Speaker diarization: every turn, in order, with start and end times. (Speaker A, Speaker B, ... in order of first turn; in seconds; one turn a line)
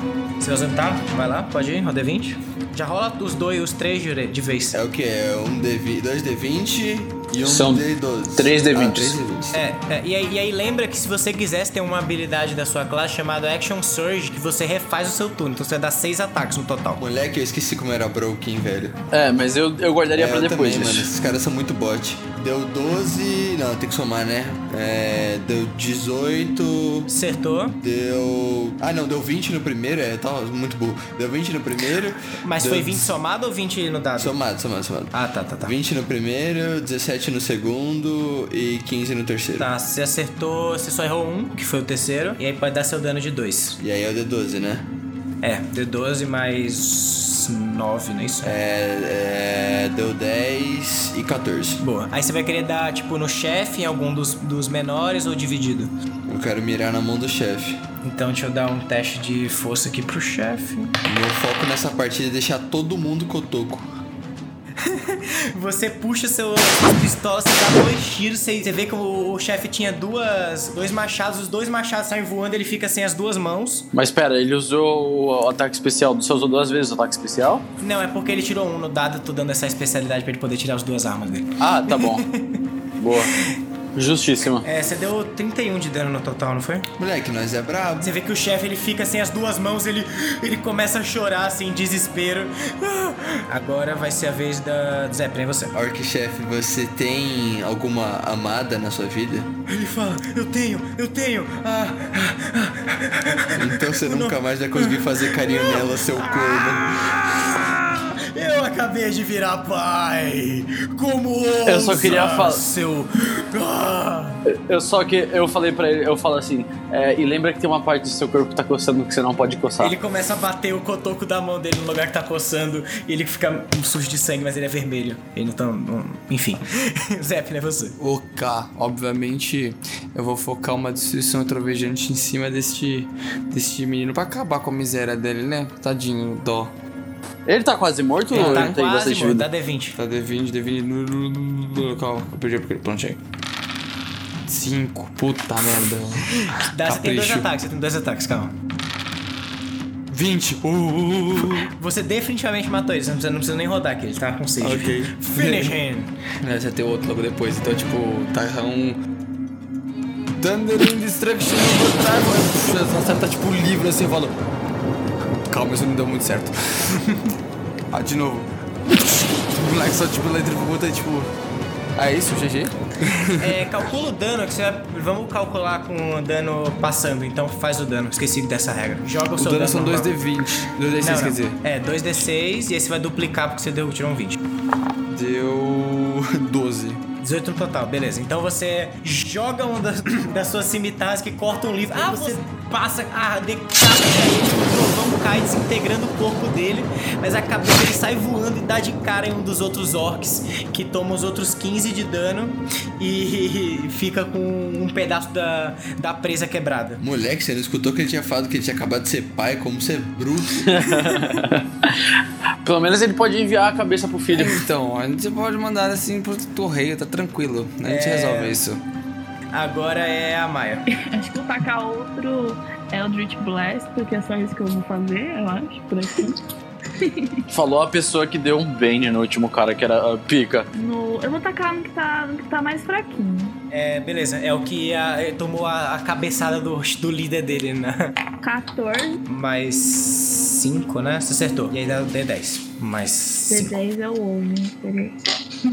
Speaker A: 0.4-4.8
Speaker B: 4.7-9.6
Speaker C: 7.4-9.3
Speaker A: 9.5-17.0
Speaker B: 17.0-19.0
Speaker C: 19.1-21.1
Speaker B: 20.1-27.1
Speaker A: 27.1-27.8
Speaker B: 27.8-33.2
Speaker A: 32.4-34.4
Speaker B: 34.2-39.7
Speaker A: 35.1-35.7
Speaker A: 39.6-43.8
Speaker B: 43.8-44.9
Speaker A: 45.4-48.5
Speaker B: 48.4-51.8
Speaker A: 51.8-55.9
Speaker B: 56.3-57.8
Speaker A: 58.0-61.0
Speaker B: 61.0-63.9
Speaker A: 64.8-73.9
Speaker C: 73.9-77.7
Speaker A: 77.8-82.6
Speaker C: 81.6-82.2
Speaker C: 83.0-83.3
Speaker C: 84.0-84.7
Speaker A: 84.6-86.9
Speaker B: 87.0-88.2
Speaker A: 88.0-95.8
Speaker B: 95.7-99.5
Speaker A: 99.7-114.4
Speaker B: 103.5-107.2
Speaker C: 111.7-112.6
Speaker C: 114.5-120.0
Speaker A: 119.8-128.0
Speaker D: 128.0-136.7
Speaker C: 137.5-139.5
Speaker D: 138.3-138.8
Speaker A: 138.3-140.0
Speaker D: 140.0-143.2
Speaker D: 144.5-147.5
Speaker A: 146.7-148.5
Speaker D: 150.1-151.7
Speaker A: 151.7-156.1
Speaker D: 154.6-155.8
Speaker D: 156.4-159.0
Speaker D: 160.4-164.3
Speaker D: 165.5-167.0
Speaker A: 166.9-167.3
Speaker D: 167.9-171.3
Speaker D: 172.0-173.6
Speaker A: 173.4-180.2
Speaker D: 179.4-181.6
Speaker A: 181.0-184.4
Speaker D: 185.1-187.0
Speaker A: 187.2-207.0
Speaker B: 207.0-211.3
Speaker C: 210.6-212.1
Speaker C: 212.6-214.6
Speaker D: 214.3-218.8
Speaker A: 217.9-218.6
Speaker A: 219.5-220.8
Speaker E: 220.9-226.4
Speaker E: 227.0-227.4
Speaker C: 227.5-230.7
Speaker E: 230.7-233.6
Speaker A: 233.7-238.1
Speaker E: 238.4-239.2
Speaker A: 239.3-243.8
Speaker E: 243.5-245.2